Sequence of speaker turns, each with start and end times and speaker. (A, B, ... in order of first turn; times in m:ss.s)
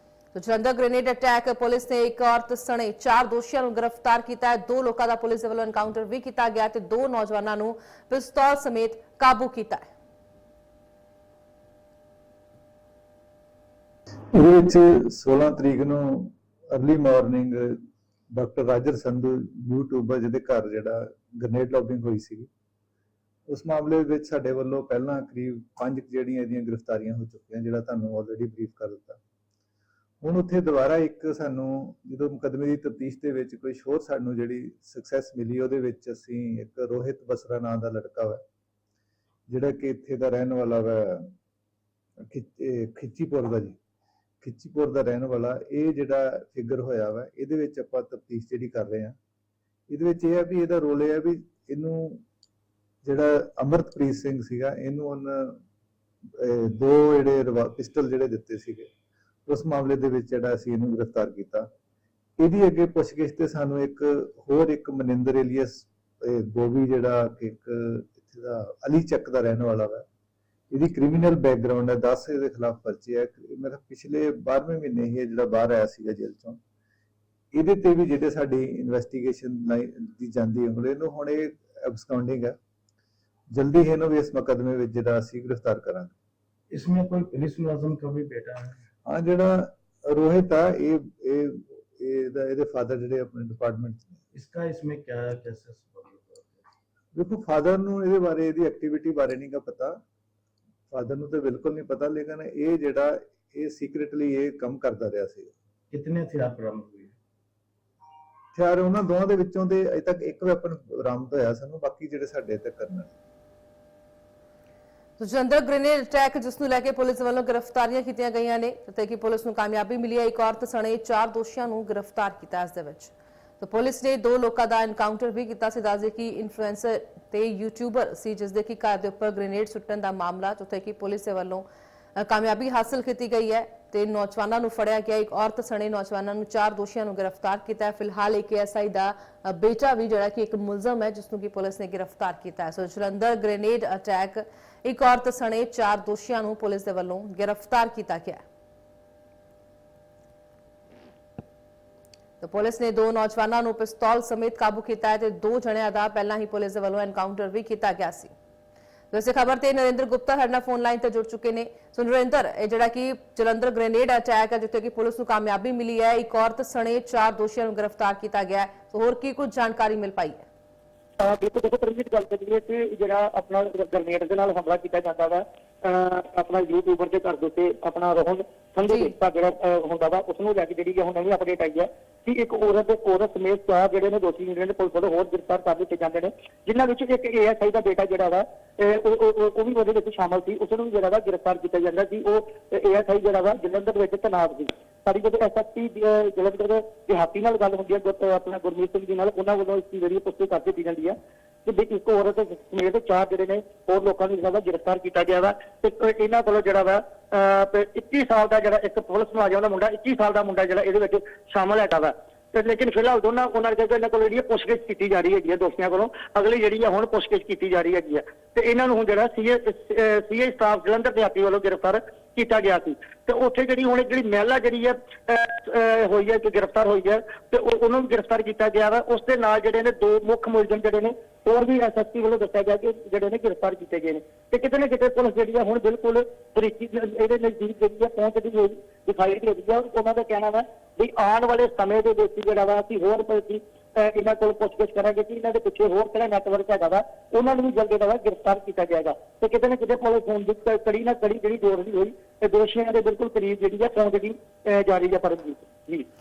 0:00.3-0:09.9 A
0:14.3-0:17.8 B
0:18.3-0:22.5 B
0:23.5-0:29.2 B
0:30.2-0:38.4 B
0:39.5-0:41.3 B
0:42.3-0:43.8 B
0:44.4-0:49.2 B
0:49.9-0:52.2 B
0:53.0-0:55.6 B
0:56.4-0:58.9 B
0:59.5-1:01.7 B
1:02.4-1:10.0 B
1:10.7-1:16.6 B
1:17.5-1:22.6 B
1:23.5-1:26.1 B
1:26.7-1:28.8 C
1:29.0-1:34.2 B
1:34.3-1:36.6 C
1:37.1-1:40.0 B
1:40.9-1:45.5 B
1:45.9-1:47.2 C
1:48.5-1:53.1 B
1:55.2-2:11.6 A
2:12.2-2:28.4 A
2:32.4-2:38.3 A
2:39.1-2:50.4 A
2:51.2-4:16.0 D
2:58.8-2:59.1 A